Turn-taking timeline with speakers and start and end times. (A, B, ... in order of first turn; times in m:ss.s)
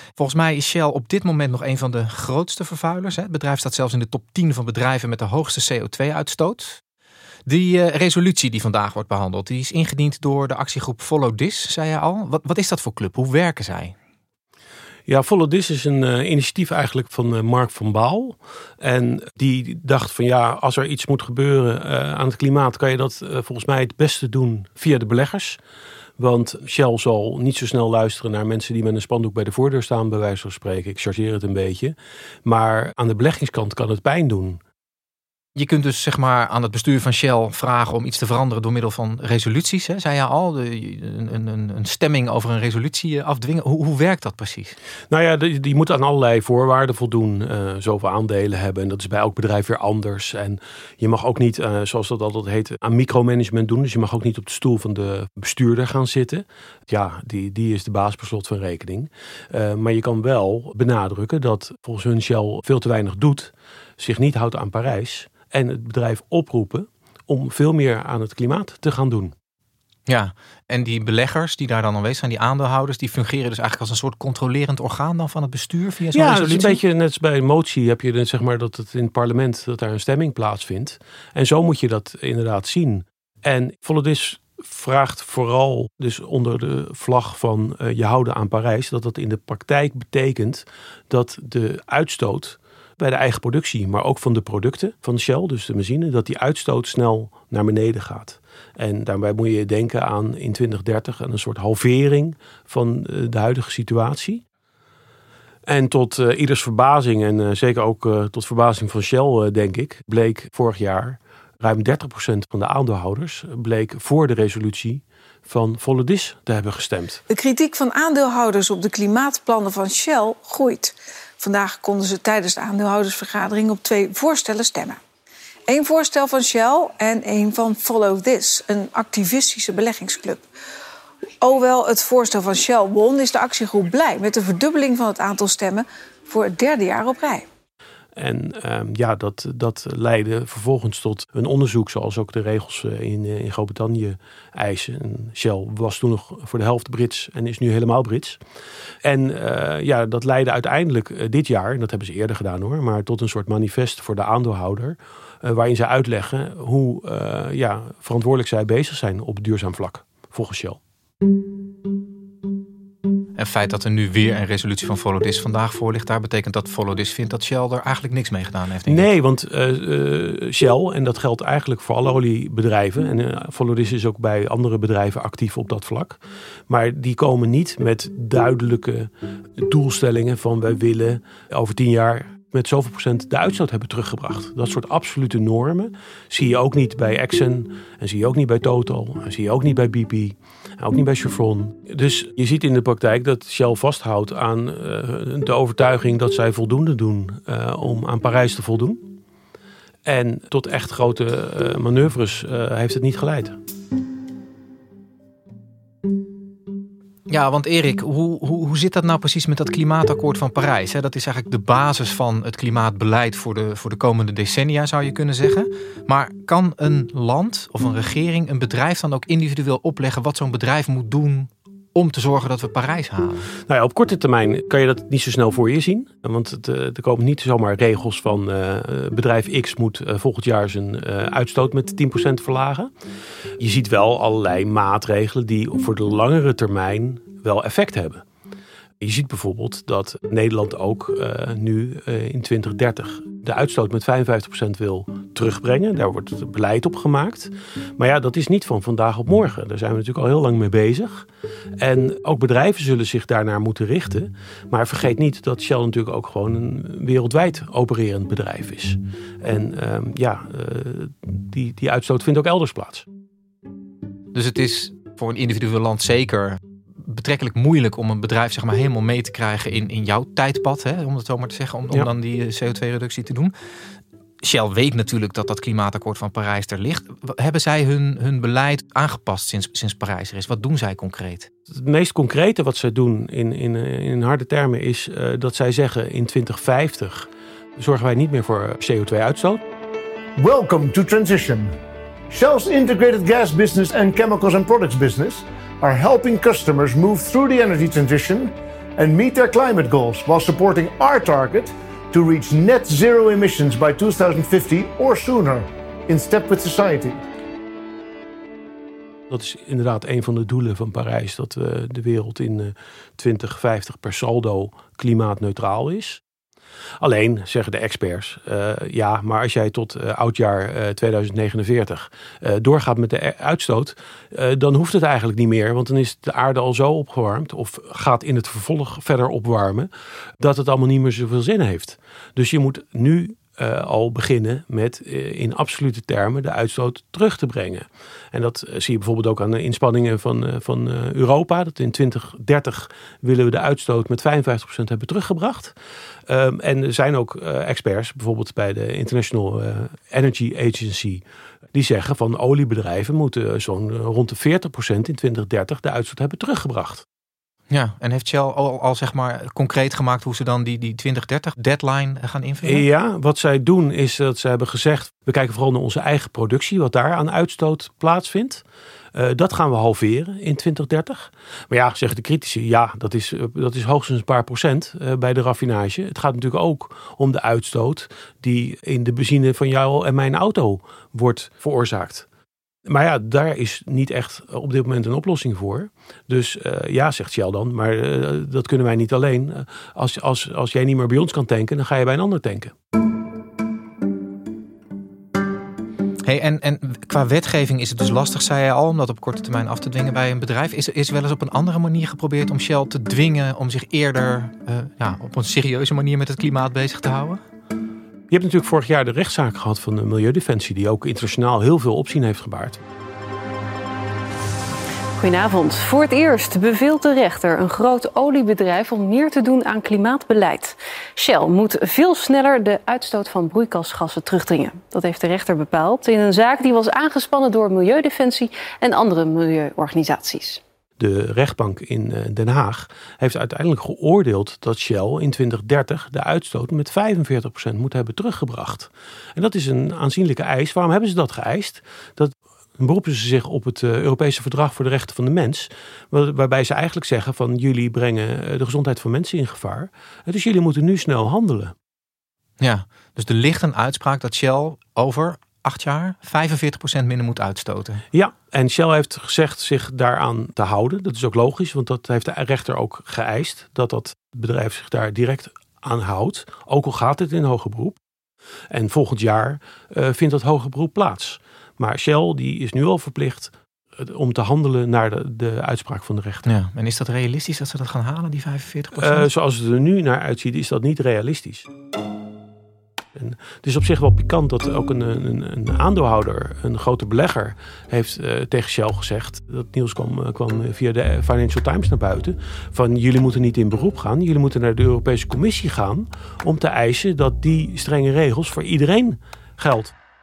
0:00.2-0:06.8 A
0:07.4-0:13.9 A
0:15.1-0:25.6 B
0:26.2-0:34.6 B
0:35.6-0:44.7 A
0:45.1-1:09.3 B
1:10.1-1:16.8 A
1:16.1-1:44.4 B
1:45.7-1:57.2 B
1:57.3-2:05.0 C
2:05.7-2:10.4 C
2:11.4-2:17.4 C
2:18.2-2:28.4 B
2:29.0-2:40.8 B
2:43.4-2:49.1 A
2:48.8-2:56.2 B
2:56.7-2:59.1 B
2:59.6-3:19.0 B
3:20.0-3:23.6 B
3:27.3-3:43.5 A
3:43.7-3:52.9 B
3:53.6-3:58.2 B
3:59.0-4:11.3 B
4:11.8-4:23.0 B
4:24.3-4:33.5 A
4:34.4-4:41.5 A
4:41.7-4:49.6 B
4:50.4-4:51.8 D
4:52.3-5:07.2 D
5:09.3-5:16.2 B
5:17.0-5:45.7 B
5:46.3-5:57.0 B
5:57.7-6:02.8 A
6:02.6-6:22.2 B
6:22.9-6:32.7 B
6:36.2-6:47.4 A
6:48.3-6:52.8 B
6:55.2-7:10.6 E
7:11.0-7:31.7 B
7:32.6-7:38.0 A
7:38.1-7:48.0 B
7:48.7-7:56.5 B
7:56.4-7:59.3 A
7:58.9-8:01.7 B
8:03.2-8:19.9 B